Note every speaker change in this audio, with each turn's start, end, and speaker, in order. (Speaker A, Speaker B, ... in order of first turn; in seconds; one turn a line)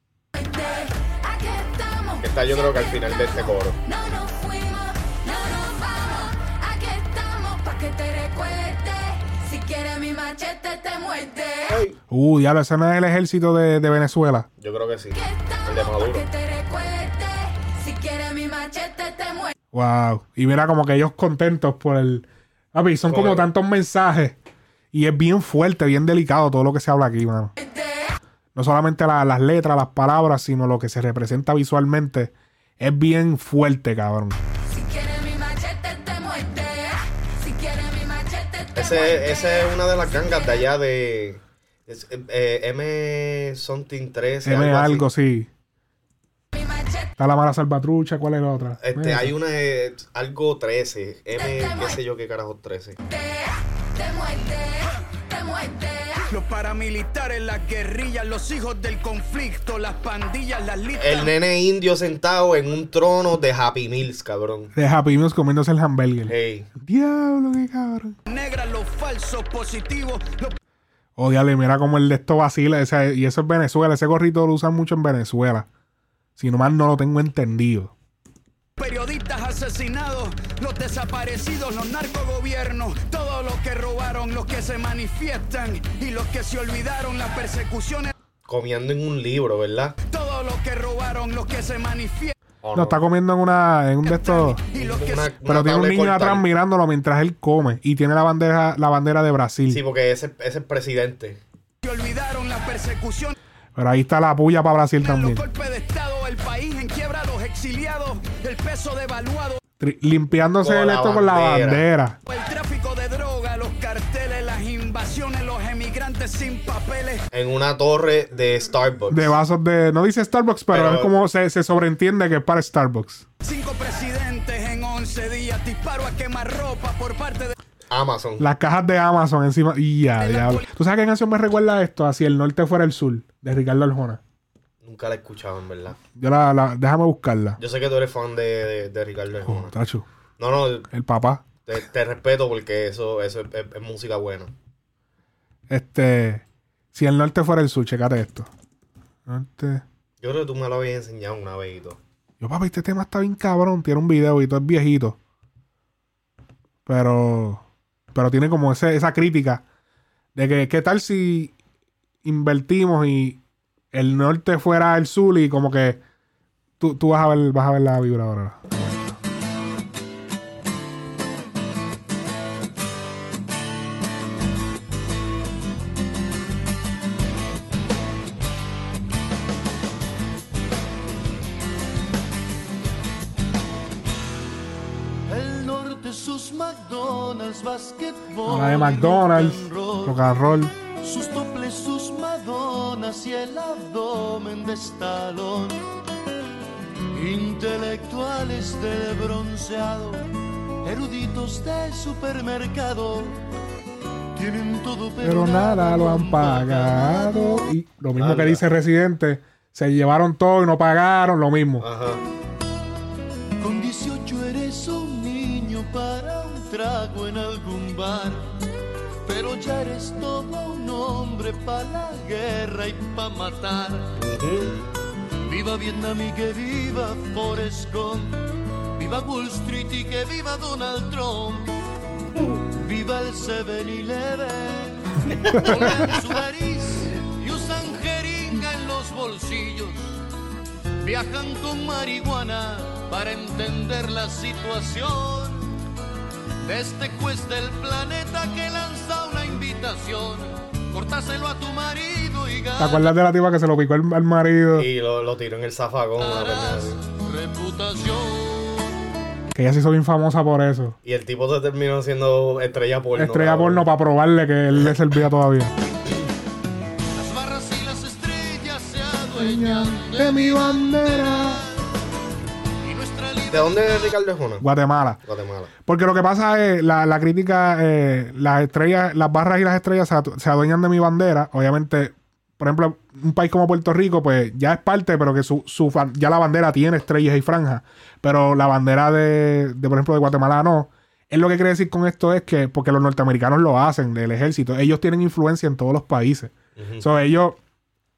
Speaker A: 0.3-3.2
Speaker B: 2.2-3.8
Speaker A: 3.9-11.8
Speaker B: 11.7-11.9
Speaker C: 12.1-14.5
Speaker B: 14.6-16.3
Speaker A: 15.2-19.5
Speaker C: 19.7-24.4
Speaker B: 23.1-23.5
Speaker C: 24.9-27.5
Speaker A: 27.6-28.1
Speaker C: 28.6-34.4
Speaker A: 34.7-40.5
Speaker B: 38.7-45.1
Speaker C: 44.4-45.5
Speaker A: 46.5-47.1
Speaker C: 47.2-49.3
Speaker B: 48.8-53.0
Speaker A: 51.4-52.0
Speaker A: 53.0-56.2
Speaker D: 56.3-61.3
Speaker B: 60.9-64.7
Speaker C: 64.8-68.2
Speaker B: 66.3-66.7
Speaker D: 68.3-70.6
Speaker C: 71.2-75.7
Speaker C: 76.4-77.9
Speaker D: 78.8-88.1
Speaker B: 88.5-89.9
Speaker D: 90.0-92.3
Speaker B: 92.6-93.0
Speaker C: 92.8-94.6
Speaker D: 94.0-95.3
Speaker B: 94.7-96.4
Speaker C: 95.5-99.8
Speaker B: 99.7-101.4
Speaker D: 101.8-103.3
Speaker C: 103.7-105.4
Speaker D: 105.0-109.6
Speaker C: 109.8-112.2
Speaker B: 110.6-111.8
Speaker D: 112.3-117.2
Speaker B: 117.3-119.3
Speaker C: 119.1-123.2
Speaker B: 120.7-121.1
Speaker D: 123.4-127.5
Speaker B: 127.9-128.4
Speaker C: 128.4-134.2
Speaker D: 130.2-130.6
Speaker B: 134.8-136.0
Speaker C: 136.1-137.6
Speaker B: 137.6-139.7
Speaker C: 139.4-140.1
Speaker B: 140.4-140.8
Speaker C: 140.9-141.4
Speaker B: 141.7-144.5
Speaker C: 145.7-148.5
Speaker C: 149.3-149.8
Speaker B: 150.2-152.0
Speaker C: 152.4-155.2
Speaker C: 156.8-157.6
Speaker C: 158.1-159.6
Speaker C: 160.3-161.6
Speaker C: 162.2-163.4
Speaker C: 163.9-166.0
Speaker C: 166.8-168.6
Speaker E: 185.3-190.3
Speaker C: 188.4-190.7
Speaker E: 191.0-195.8
Speaker E: 197.1-200.2
Speaker E: 200.8-203.3
Speaker E: 204.3-207.7
Speaker C: 205.2-211.8
Speaker B: 208.2-208.6
Speaker B: 211.8-212.2
Speaker E: 213.6-218.4
Speaker E: 219.3-224.1
Speaker B: 224.2-224.7
Speaker E: 225.5-228.3
Speaker E: 229.0-231.8
Speaker E: 232.8-240.2
Speaker C: 235.7-236.1
Speaker E: 241.0-245.7
Speaker E: 246.6-253.1
Speaker C: 252.8-254.9
Speaker B: 254.8-257.0
Speaker E: 256.2-258.8
Speaker C: 259.5-260.9
Speaker B: 261.1-263.8
Speaker C: 263.2-265.7
Speaker E: 267.1-271.8
Speaker C: 269.4-271.6
Speaker E: 272.8-274.0
Speaker B: 273.5-274.6
Speaker C: 274.6-275.2
Speaker B: 275.2-275.7
Speaker C: 275.9-297.6
Speaker B: 296.8-297.0